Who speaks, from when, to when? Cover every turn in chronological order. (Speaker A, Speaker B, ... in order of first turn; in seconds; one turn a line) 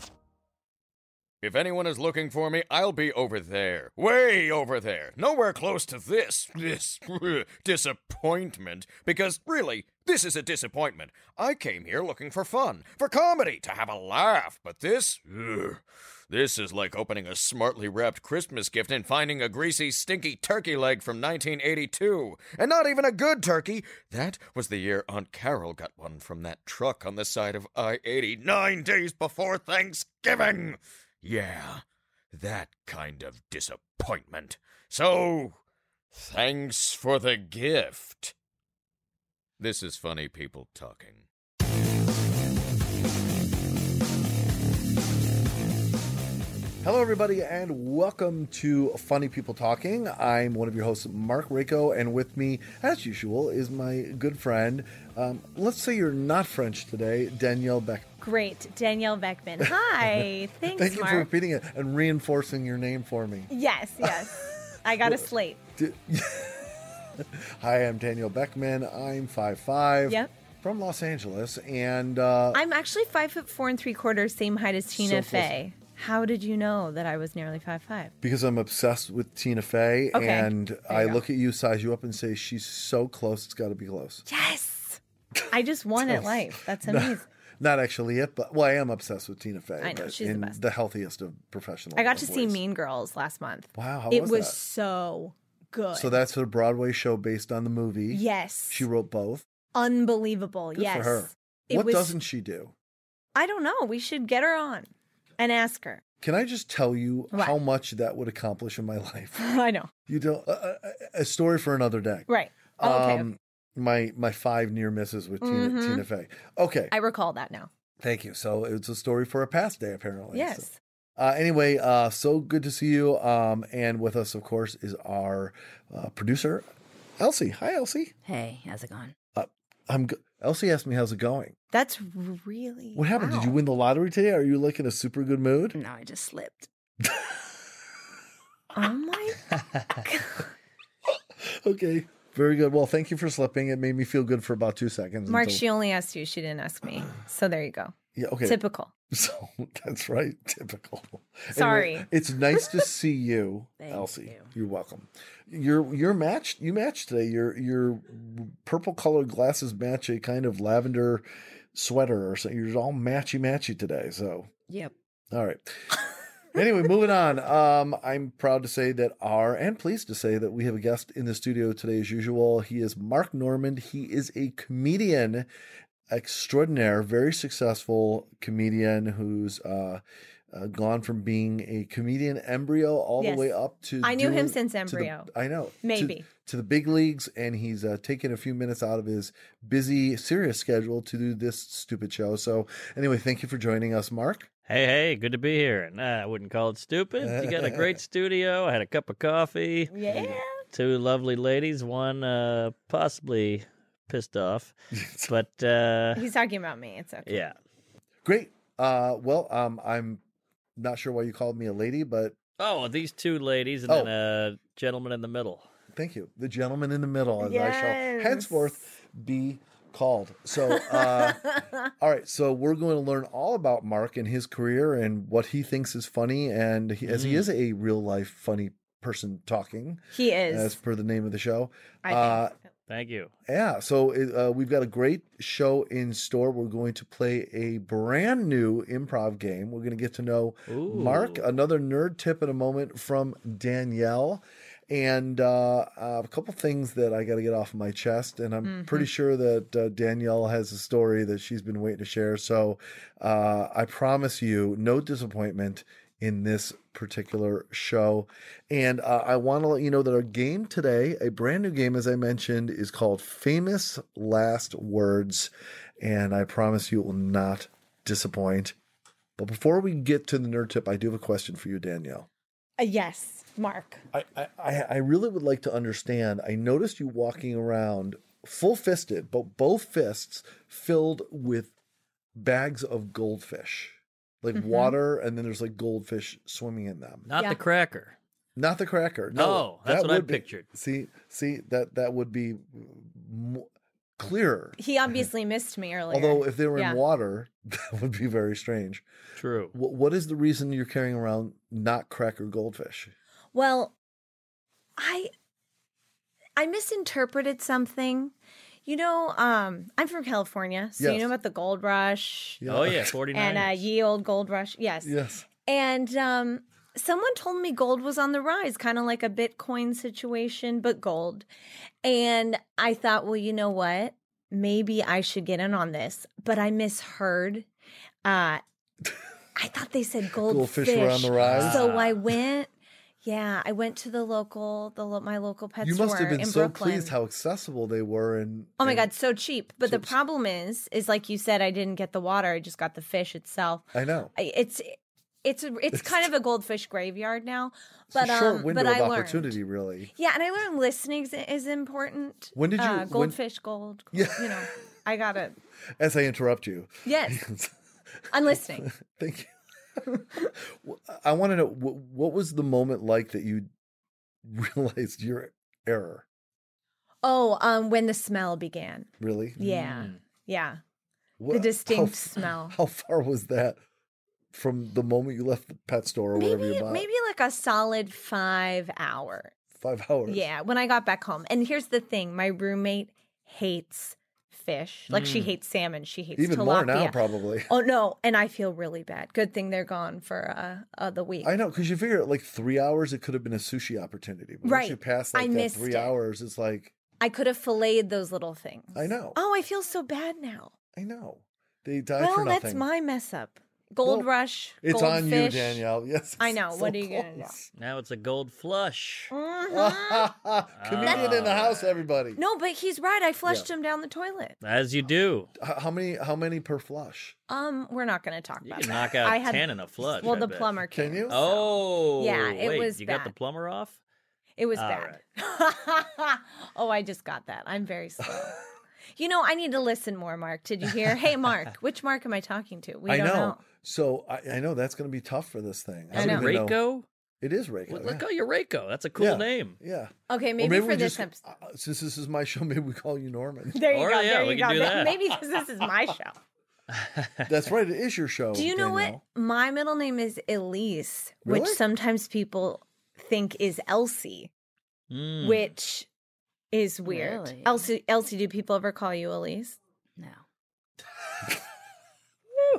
Speaker A: 1.4-35.6
Speaker A: 36.1-38.3
Speaker A: 39.6-41.2
Speaker B: 46.8-58.0
Speaker C: 58.2-61.3
Speaker B: 59.6-72.6
Speaker C: 63.5-65.6
Speaker C: 70.1-70.3
Speaker C: 72.5-78.1
Speaker B: 74.9-75.5
Speaker B: 78.2-84.2
Speaker C: 80.1-81.2
Speaker C: 84.3-85.0
Speaker B: 85.4-92.6
Speaker C: 85.5-87.3
Speaker C: 89.8-90.6
Speaker C: 92.0-96.2
Speaker B: 93.7-94.6
Speaker B: 95.9-99.5
Speaker C: 98.1-98.8
Speaker C: 99.7-102.2
Speaker B: 100.7-102.7
Speaker C: 103.3-106.0
Speaker B: 106.2-109.5
Speaker C: 109.4-109.9
Speaker B: 110.1-112.3
Speaker C: 112.3-113.3
Speaker B: 112.8-116.9
Speaker C: 115.4-116.0
Speaker C: 116.9-117.7
Speaker B: 118.0-126.7
Speaker C: 120.3-120.8
Speaker B: 127.2-128.1
Speaker D: 128.2-129.1
Speaker B: 129.3-131.5
Speaker C: 131.7-133.6
Speaker B: 132.9-135.8
Speaker D: 135.7-136.7
Speaker B: 137.0-137.3
Speaker C: 138.7-140.4
Speaker B: 141.1-145.6
Speaker C: 145.3-148.9
Speaker B: 148.1-148.6
Speaker B: 149.1-164.5
Speaker C: 151.5-152.1
Speaker C: 153.8-154.5
Speaker B: 165.3-165.9
Speaker B: 166.5-175.5
Speaker B: 176.1-194.5
Speaker C: 183.2-185.3
Speaker C: 185.8-186.2
Speaker E: 194.7-200.1
Speaker B: 197.2-198.0
Speaker C: 199.9-200.6
Speaker E: 200.7-204.7
Speaker B: 204.9-205.3
Speaker E: 205.3-206.2
Speaker C: 206.1-207.4
Speaker E: 207.3-207.6
Speaker B: 208.2-210.2
Speaker B: 210.8-212.4
Speaker E: 212.6-215.7
Speaker B: 213.9-214.1
Speaker B: 215.9-232.5
Speaker C: 217.4-218.6
Speaker C: 220.8-221.7
Speaker E: 227.0-227.5
Speaker C: 230.1-230.8
Speaker C: 232.0-232.4
Speaker E: 232.9-233.3
Speaker B: 233.5-268.7
Speaker E: 240.7-241.5
Speaker C: 248.6-249.1
Speaker B: 269.4-272.3
Speaker C: 272.8-274.0
Speaker B: 274.1-281.7
Speaker B: 282.4-287.3
Speaker C: 284.6-284.9
Speaker E: 287.3-288.1
Speaker B: 288.6-294.8
Speaker E: 289.3-290.6
Speaker C: 294.8-297.0
Speaker B: 296.1-299.0
Speaker E: 299.4-299.7
Speaker B: 299.7-303.1
Speaker C: 303.5-303.9
Speaker C: 305.0-305.3
Speaker C: 306.6-308.3
Speaker C: 308.9-312.6
Speaker B: 311.0-311.3
Speaker B: 312.6-313.2
Speaker E: 312.7-313.8
Speaker C: 313.3-315.1
Speaker B: 315.0-315.5
Speaker C: 315.6-321.5
Speaker C: 322.0-327.7
Speaker C: 328.2-328.6
Speaker C: 329.6-332.7
Speaker B: 330.4-331.9
Speaker E: 331.4-332.2
Speaker C: 333.2-337.1
Speaker B: 335.8-339.1
Speaker C: 338.8-349.5
Speaker B: 339.8-340.1
Speaker B: 343.9-344.3
Speaker B: 345.9-346.3
Speaker B: 348.1-350.1
Speaker C: 350.1-355.6
Speaker B: 352.5-353.4
Speaker B: 354.1-354.6
Speaker B: 356.0-357.7
Speaker C: 357.0-357.4
Speaker B: 358.3-363.7
Speaker C: 358.3-358.9
Speaker B: 364.4-366.2
Speaker C: 367.2-370.8
Speaker B: 369.2-369.6
Speaker E: 369.6-370.2
Speaker B: 371.4-373.8
Speaker C: 371.5-372.8
Speaker B: 374.5-377.1
Speaker C: 376.3-379.5
Speaker B: 379.7-380.5
Speaker C: 380.3-391.5
Speaker E: 385.1-385.5
Speaker B: 386.4-387.7
Speaker B: 391.4-396.9
Speaker C: 394.6-396.1
Speaker C: 397.2-400.7
Speaker B: 398.9-399.4
Speaker B: 400.9-402.8
Speaker C: 402.2-405.8
Speaker B: 404.8-407.7
Speaker C: 406.4-407.5
Speaker E: 407.8-409.3
Speaker C: 409.3-410.3
Speaker B: 409.7-412.4
Speaker E: 410.8-412.0
Speaker C: 411.0-411.4
Speaker C: 412.4-414.6
Speaker E: 414.6-415.5
Speaker B: 415.6-417.4
Speaker C: 417.5-419.7
Speaker E: 418.6-420.7
Speaker B: 420.2-421.4
Speaker C: 420.2-423.3
Speaker E: 421.3-424.0
Speaker C: 424.6-428.6
Speaker E: 424.8-425.2
Speaker B: 428.2-428.6
Speaker C: 429.1-433.6
Speaker B: 433.1-436.8
Speaker E: 436.1-437.1
Speaker C: 436.1-436.5
Speaker B: 437.4-438.2
Speaker E: 437.9-439.8
Speaker B: 439.2-443.9
Speaker C: 440.3-441.4
Speaker C: 443.7-446.4
Speaker E: 443.9-445.4
Speaker E: 446.9-447.5
Speaker B: 447.4-449.2
Speaker C: 448.5-454.5
Speaker B: 451.4-451.8
Speaker E: 455.1-455.7
Speaker C: 455.4-456.1
Speaker C: 456.7-459.8
Speaker D: 457.1-457.8
Speaker D: 460.2-460.4